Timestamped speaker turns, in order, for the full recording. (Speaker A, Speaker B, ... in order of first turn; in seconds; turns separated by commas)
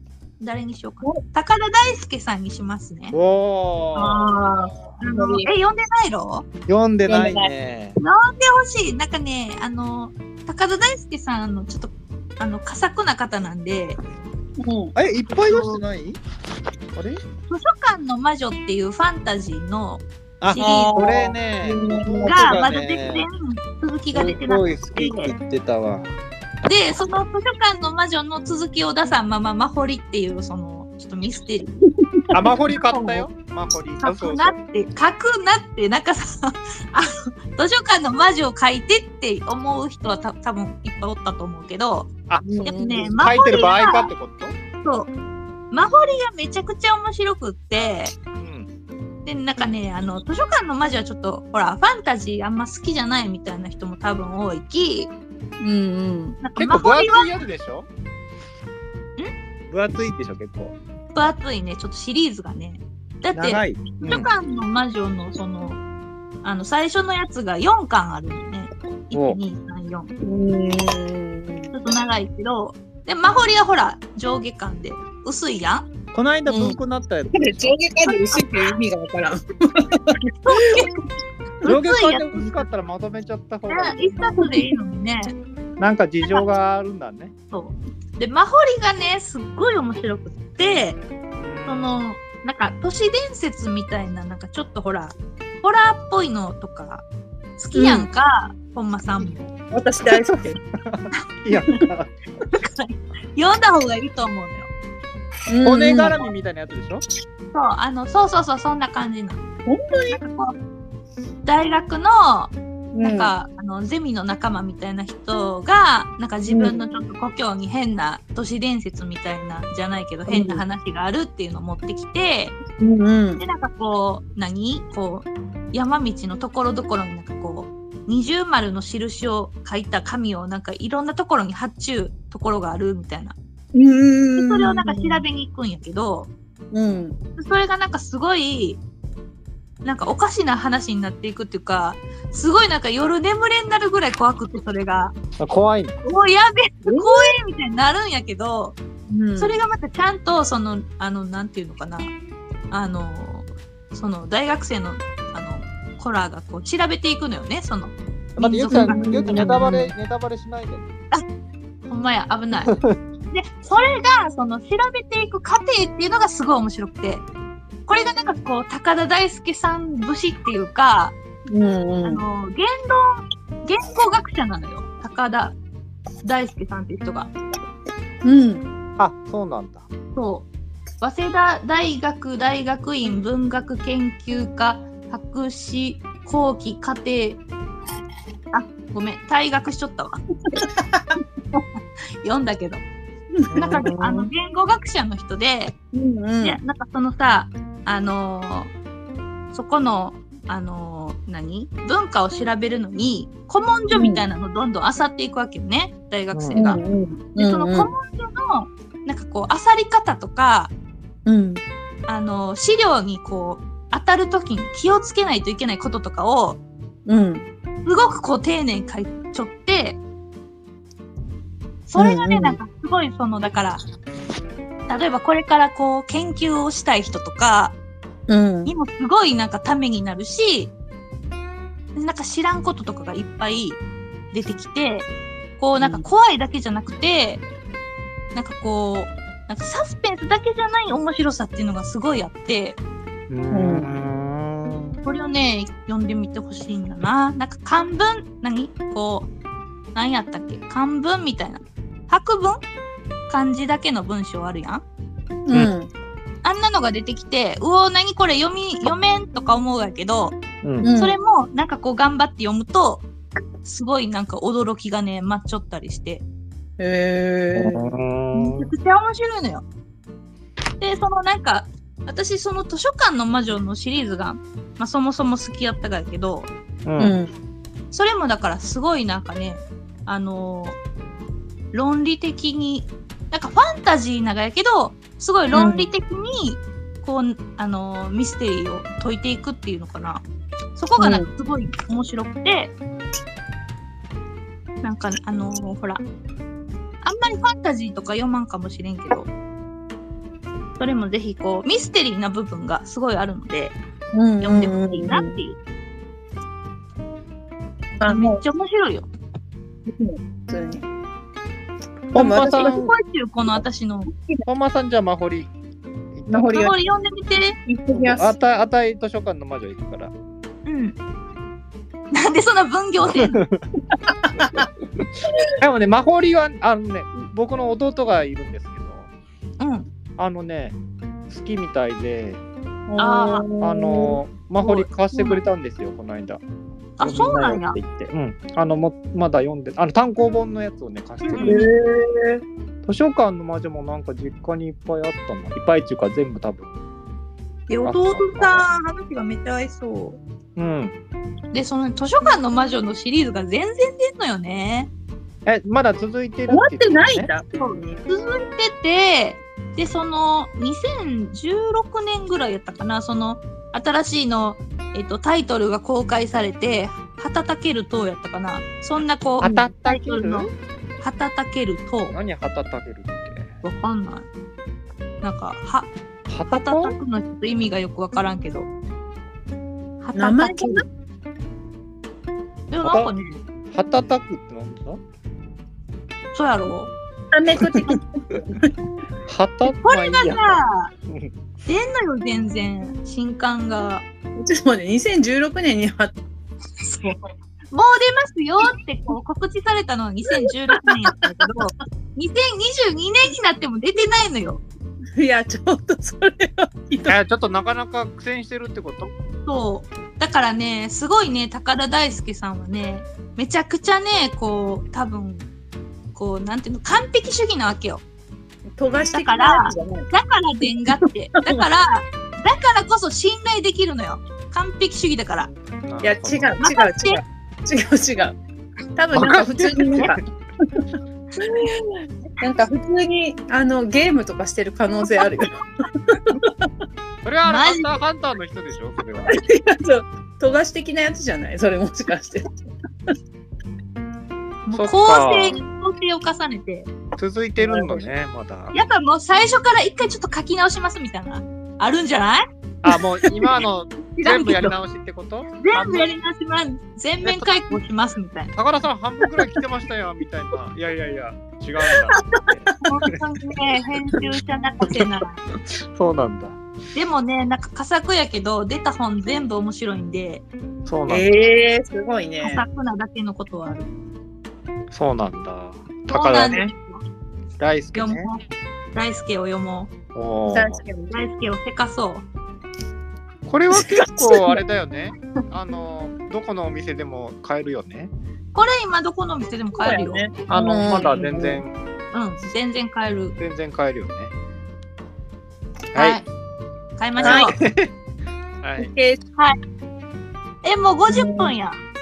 Speaker A: 0.4-3.2, Speaker B: 3.1-4.8, Speaker A: 3.9-6.5, Speaker C: 5.0-5.5, Speaker B: 6.7-8.0, Speaker C: 7.1-7.5, Speaker A: 8.0-14.0, Speaker C: 14.6-14.9, Speaker B: 14.9-16.2, Speaker A: 15.4-15.8, Speaker B: 16.9-17.2, Speaker A: 17.5-21.3, Speaker B: 20.4-23.3, Speaker C: 20.6-22.6, Speaker A: 22.2-25.3, Speaker B: 24.1-26.1, Speaker A: 26.6-31.8, Speaker B: 32.3-34.6, Speaker A: 32.6-33.3, Speaker A: 34.0-42.1, Speaker B: 42.3-44.6, Speaker C: 42.5-43.3, Speaker A: 42.6-44.1, Speaker A: 44.8-45.1, Speaker A: 45.7-48.2, Speaker B: 48.4-48.7, Speaker A: 49.2-55.1, Speaker C: 55.6-56.4, Speaker A: 56.4-57.4, Speaker B: 56.6-57.9, Speaker B: 59.7-60.8, Speaker A: 61.1-65.8, Speaker B: 63.3-64.3, Speaker A: 66.4-70.2, Speaker B: 69.1-69.4, Speaker C: 70.2-71.7, Speaker A: 71.7-75.9, Speaker B: 76.1-77.8, Speaker C: 76.5-76.8, Speaker C: 77.3-80.9, Speaker A: 78.3-78.6, Speaker A: 80.4-81.0, Speaker A: 81.6-82.6, Speaker B: 81.7-84.5, Speaker A: 83.7-85.3, Speaker C: 84.4-84.7, Speaker B: 85.8-87.3, Speaker A: 86.2-86.5, Speaker A: 87.5-91.0, Speaker B: 91.4-92.0, Speaker A: 91.7-97.0, Speaker A: 97.6-99.5, Speaker C: 97.7-98.1, Speaker C: 99.2-100.6, Speaker B: 100.1-102.1, Speaker A: 102.5-104.7, Speaker C: 105.5-106.2, Speaker B: 105.6-107.0, Speaker A: 107.5-109.4, Speaker C: 109.7-110.2, Speaker A: 110.1-110.5, Speaker A: 111.5-122.6, Speaker C: 113.0-113.3, Speaker C: 116.5-116.8, Speaker C: 120.3-120.6, Speaker C: 122.8-123.4, Speaker A: 123.4-133.4, Speaker C: 133.8-135.2, Speaker A: 134.4-136.3, Speaker C: 136.7-137.2, Speaker A: 137.4-138.8, Speaker A: 139.8-145.2, Speaker B: 145.4-145.9, Speaker A: 146.0-148.8, Speaker C: 146.8-147.3, Speaker C: 149.1-149.6, Speaker A: 149.4-152.1, Speaker A: 152.7-159.8, Speaker B: 158.4-160.9, Speaker C: 158.7-159.9, Speaker A: 161.9-162.8, Speaker B: 162.7-163.0, Speaker A: 163.3-167.3, Speaker A: 167.9-171.2, Speaker C: 171.5-172.2, Speaker A: 172.0-175.6, Speaker A: 176.2-177.3, Speaker C: 178.2-178.7, Speaker B: 179.0-179.8, Speaker A: 180.2-180.5, Speaker A: 181.0-187.4, Speaker A: 188.5-190.2, Speaker C: 190.5-191.2, Speaker A: 192.2-192.8, Speaker C: 193.3-194.3, Speaker B: 193.5-193.8, Speaker A: 193.6-195.8, Speaker C: 195.9-196.6, Speaker A: 196.4-198.7, Speaker A: 199.5-206.8, Speaker C: 203.9-204.2, Speaker B: 206.3-206.6, Speaker C: 206.6-207.9, Speaker A: 207.3-210.7, Speaker C: 211.3-211.6, Speaker A: 212.1-216.6, Speaker C: 217.1-217.5, Speaker A: 217.8-220.0, Speaker A: 221.9-223.8, Speaker C: 222.0-222.6, Speaker A: 224.9-227.8, Speaker C: 228.3-228.7, Speaker A: 228.7-230.7, Speaker A: 232.0-233.8, Speaker A: 234.3-237.4, Speaker C: 235.8-236.1, Speaker A: 238.3-242.8, Speaker B: 243.3-245.0, Speaker C: 243.5-243.9, Speaker A: 245.0-249.3, Speaker A: 249.9-252.6, Speaker A: 253.3-254.8, Speaker C: 255.5-255.9, Speaker A: 256.4-260.4, Speaker B: 260.6-260.9, Speaker C: 260.8-261.1, Speaker A: 261.0-263.1, Speaker A: 263.6-266.2, Speaker C: 266.8-267.9, Speaker B: 267.6-268.7, Speaker A: 268.3-269.6, Speaker A: 270.8-276.5, Speaker B: 276.9-277.1, Speaker C: 277.0-277.3, Speaker A: 277.9-280.8, Speaker A: 281.7-290.2, Speaker C: 285.5-285.9, Speaker A: 290.8-292.8, Speaker C: 291.0-291.3, Speaker A: 294.8-296.0, Speaker A: 297.0-299.3, Speaker A: 300.8-303.8, Speaker C: 304.1-305.4, Speaker A: 304.4-305.6, Speaker C: 308.0-308.4, Speaker A: 308.1-309.1, Speaker C: 309.9-310.9, Speaker B: 312.1-312.9, Speaker C: 312.1-312.8, Speaker A: 312.4-314.1, Speaker B: 314.5-315.5, Speaker B: 316.1-316.6, Speaker C: 316.3-316.8, Speaker A: 316.3-317.6, Speaker C: 317.7-318.4, Speaker B: 317.9-320.1, Speaker A: 320.7-321.0, Speaker A: 322.1-323.4, Speaker B: 323.0-323.6, Speaker C: 324.0-324.7, Speaker B: 324.4-324.7, Speaker B: 325.6-329.1, Speaker A: 329.6-329.9, Speaker B: 330.2-330.8, Speaker B: 331.3-332.4, Speaker C: 332.9-334.2, Speaker A: 333.0-333.5, Speaker B: 333.6-336.4, Speaker A: 334.6-335.4, Speaker A: 337.0-337.8, Speaker B: 337.0-341.7, Speaker A: 341.3-341.6, Speaker C: 341.3-342.4, Speaker B: 342.8-346.8, Speaker A: 347.7-350.2, Speaker B: 347.8-348.7, Speaker B: 350.6-350.9, Speaker A: 351.5-354.9, Speaker B: 355.5-357.3, Speaker C: 356.5-357.5, Speaker A: 357.5-370.5, Speaker B: 369.4-370.5, Speaker C: 369.4-369.7, Speaker A: 371.0-372.2, Speaker B: 372.1-373.5, Speaker A: 373.6-374.3, Speaker A: 375.2-375.9, Speaker B: 376.3-377.0, Speaker A: 376.5-378.7, Speaker A: 380.0-380.9, Speaker C: 380.1-380.8, Speaker A: 382.7-383.4, Speaker B: 382.8-383.1, Speaker B: 383.7-385.0, Speaker A: 386.3-386.9, Speaker C: 387.3-388.7, Speaker B: 389.3-391.3, Speaker A: 389.7-390.9, Speaker A: 391.7-394.1, Speaker C: 394.4-396.2, Speaker A: 397.7-404.6, Speaker C: 400.4-401.5, Speaker C: 405.2-407.2, Speaker B: 407.1-409.1, Speaker A: 409.5-415.5, Speaker A: 416.1-418.0, Speaker C: 418.8-420.1, Speaker A: 419.1-425.5, Speaker B: 425.8-426.6, Speaker C: 426.0-428.4, Speaker A: 426.6-427.2, Speaker C: 428.9-430.9, Speaker B: 429.1-430.2, Speaker C: 431.4-436.5, Speaker B: 437.2-439.4, Speaker A: 437.4-437.9, Speaker C: 439.3-442.4, Speaker A: 444.6-446.9, Speaker B: 444.7-445.6, Speaker B: 447.2-448.7, Speaker C: 447.6-448.0, Speaker A: 448.7-452.5, Speaker B: 452.8-456.1, Speaker A: 454.1-454.8, Speaker A: 455.6-458.5, Speaker B: 457.2-457.8, Speaker B: 458.5-463.1, Speaker A: 462.8-465.4, Speaker B: 465.7-466.6, Speaker A: 466.9-470.5, Speaker B: 470.9-471.3, Speaker C: 471.1-472.6, Speaker A: 472.4-473.9, Speaker B: 474.9-476.7, Speaker A: 476.1-477.0, Speaker B: 477.6-478.3, Speaker A: 478.0-478.4, Speaker A: 478.9-479.9, Speaker B: 480.1-480.8, Speaker C: 480.5-481.2, Speaker A: 481.1-482.2, Speaker B: 483.5-488.1, Speaker C: 483.7-484.6, Speaker A: 488.5-490.2, Speaker C: 489.8-491.6, Speaker B: 490.5-491.7, Speaker A: 492.1-493.4, Speaker B: 493.4-494.3, Speaker B: 495.9-496.2, Speaker A: 495.9-496.3, Speaker A: 497.0-497.6, Speaker B: 497.2-497.9, Speaker C: 497.2-497.5, Speaker B: 498.6-498.9, Speaker C: 498.8-499.2, Speaker A: 500.6-501.8, Speaker C: 501.1-501.5